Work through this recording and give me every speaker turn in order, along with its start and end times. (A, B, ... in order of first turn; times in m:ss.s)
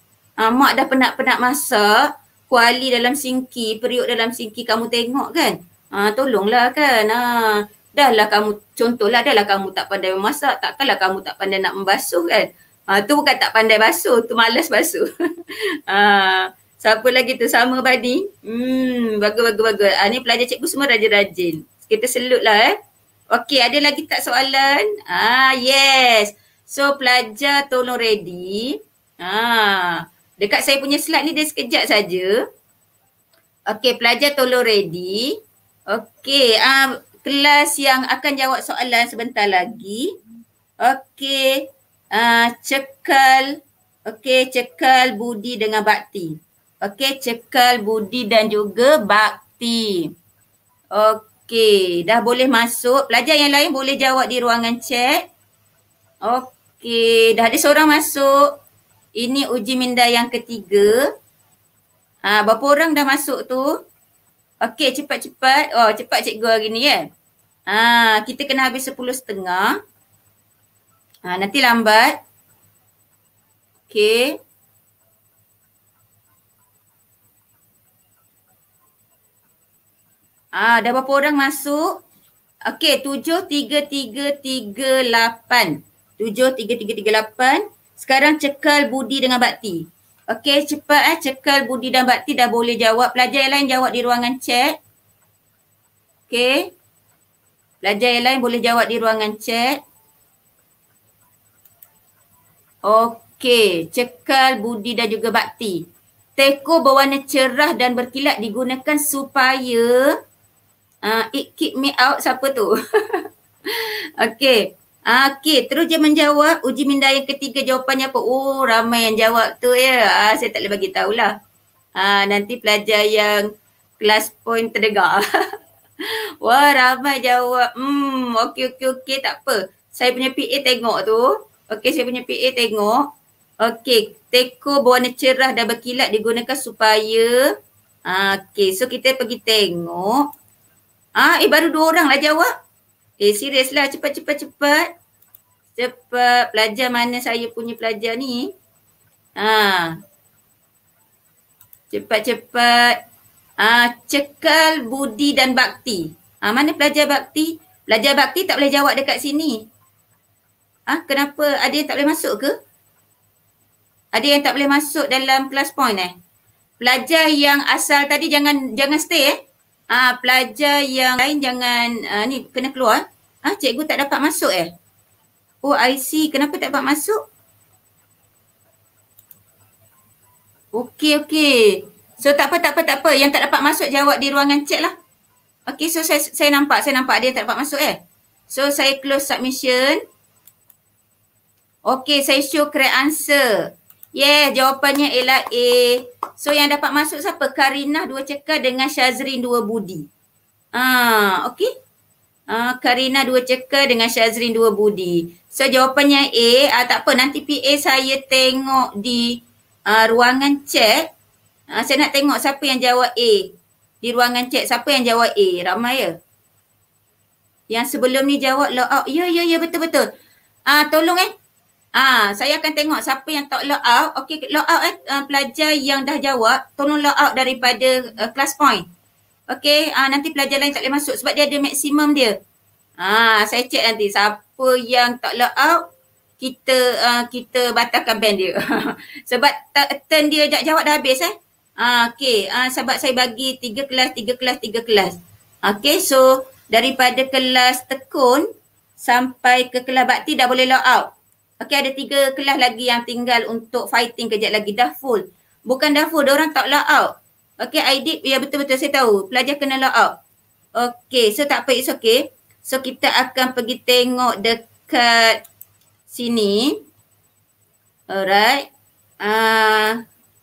0:00.4-0:22.8 A
0:23.3-0:32.4 A
0:33.7-0:35.4 A
0:35.9-0:40.1 A
0:40.8-0:43.5 A
0:44.1-0:50.1 A
0:50.9-0:55.2 A
0:56.2-0:58.5 A
0:59.2-1:01.0 A
1:02.2-1:03.7 A
1:04.6-1:07.1 A
1:07.7-1:09.8 A
1:11.3-1:12.2 A
1:13.9-1:14.4 A
1:20.6-1:22.0 A
1:22.7-1:34.8 A
1:36.3-1:36.7 A
1:37.8-1:39.8 A
1:42.9-1:45.9 A
1:46.4-1:50.1 A
1:51.0-2:01.3 A
2:02.0-2:03.5 A
2:04.0-2:05.2 A
2:06.0-2:13.1 A
2:13.6-2:17.4 A
2:18.1-2:20.3 A
2:21.2-2:22.5 A
2:23.2-2:24.9 A
2:25.8-2:28.5 A
2:29.4-2:30.0 A
2:31.9-2:33.0 A
2:33.6-2:39.6 A
2:40.9-2:42.5 A
2:44.1-2:46.1 A
2:46.8-2:49.4 A
2:49.9-2:54.7 A
2:55.6-2:57.2 A
3:00.7-3:04.9 A
3:05.7-3:08.0 A
3:08.5-3:10.0 A
3:11.9-3:13.6 A
3:14.2-3:20.1 A
3:20.7-3:21.7 A
3:22.5-3:31.1 A
3:31.7-3:36.2 A
3:37.7-3:40.1 A
3:40.7-3:41.3 A
3:42.0-3:48.8 A
3:49.5-3:52.4 A
3:53.0-3:55.9 A
3:56.4-4:08.5 A
4:09.0-4:11.1 A
4:11.6-4:20.1 A
4:20.8-4:25.4 A
4:26.1-4:26.8 A
4:28.1-4:28.7 A
4:29.2-4:30.0 A